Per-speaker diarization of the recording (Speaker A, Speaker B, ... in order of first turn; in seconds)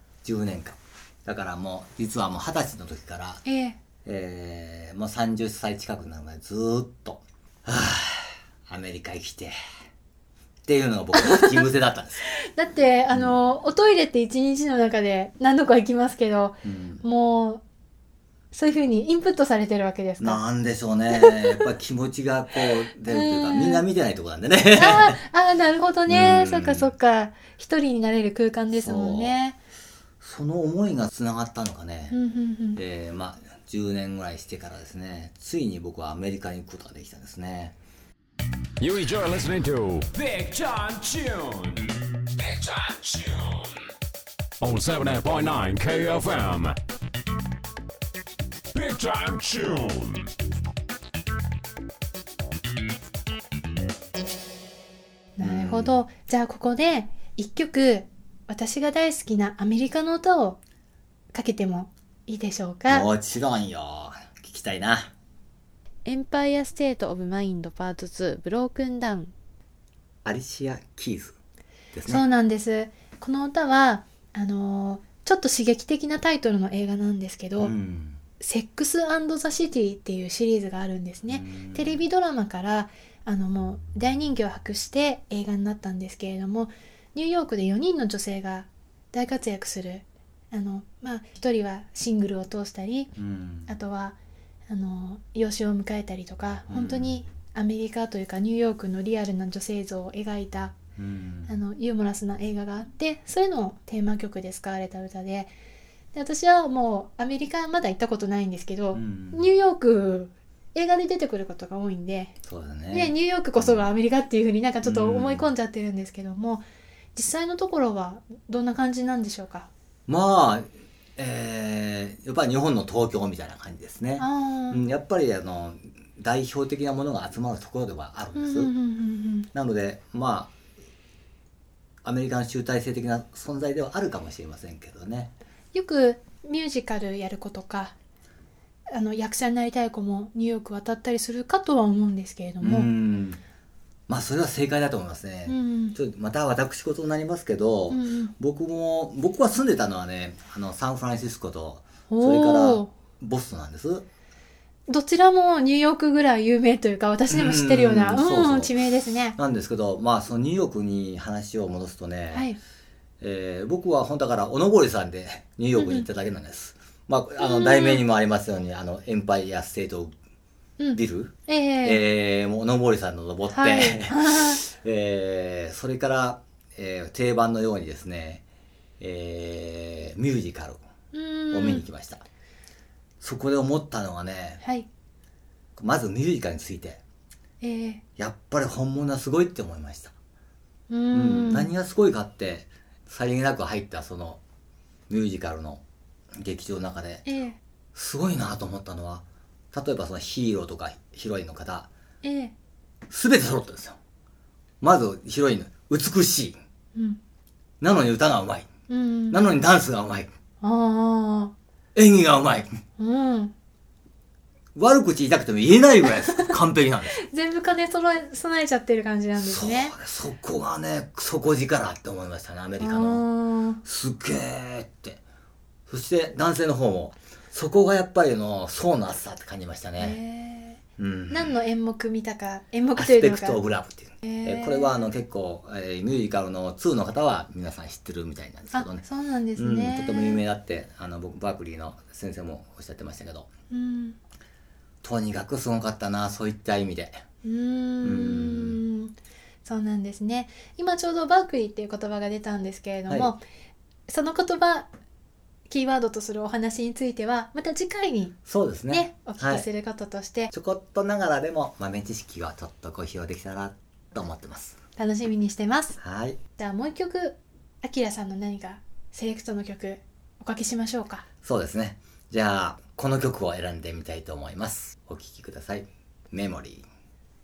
Speaker A: 0.2-3.4, 4.0-9.5, 10.7-12.2, 13.1-13.3, 16.6-17.0, 20.2-25.2, 26.1-26.9, 28.7-29.4, 30.2-32.2, 32.7-37.7, 55.4-56.0, 62.9-65.1, 70.2-71.3, 71.9-72.2, 77.6-78.2, 81.3-82.0, 93.2-93.7, 96.7-97.2, 101.0-101.5, 108.9-109.5, 112.4-113.9, 114.8-115.5, 120.1-128.7, 129.5-130.5, 132.0-135.3, 142.6-143.4, 144.1-154.1, 157.3-158.7, 159.4-162.5, 163.2-170.1, 170.9-178.4, 179.0-180.8, 181.5-182.2, 183.2-184.6, 185.8-187.0, 188.2-190.1, 191.1-194.4, 195.1-195.8, 196.4-197.3, 197.9-201.9, 203.1-204.0, 204.8-206.6, 207.8-208.7, 209.3-210.3, 211.9-212.8, 214.7-217.2, 219.3-223.2, 223.8-225.2, 225.9-230.2, 231.0-231.6, 232.9-239.0, 239.6-243.5, 245.0-247.2, 248.0-248.8, 258.4-259.6, 260.5-264.8, 266.0-266.4, 271.4-276.9
Speaker B: 3.4-3.8, 11.1-11.6, 12.2-17.6, 18.5-20.4, 21.1-21.7, 23.0-23.9, 24.7-29.6, 32.1-32.8, 55.4-60.6, 61.3-63.1, 66.0-69.3, 72.0-77.7, 78.4-93.1, 93.7-94.2, 94.7-100.8, 101.5-105.5, 106.1-112.3, 112.9-119.7, 124.2-124.9, 128.3-129.5, 135.7-137.9, 138.9-142.9, 145.5-145.9, 147.9-148.3, 152.1-152.9, 154.9-159.4, 162.3-162.6, 165.7-166.1, 167.4-168.0, 170.8-172.0, 173.5-174.6, 181.1-181.8, 184.6-184.9, 187.6-188.0, 190.9-191.7, 197.2-197.6, 202.2-202.5, 206.9-207.2, 208.9-209.4, 210.6-211.5, 213.0-213.5, 216.0-216.5, 217.2-219.9, 222.8-223.8, 230.0-230.8, 231.3-233.6, 234.2-235.0, 238.7-240.4, 243.7-244.2, 247.4-253.4, 254.1-254.9, 255.7-258.4, 258.9-260.5, 264.9-266.0, 266.6-271.2
Speaker C: 38.8-41.9, 42.4-43.5, 44.6-46.8, 48.7-50.3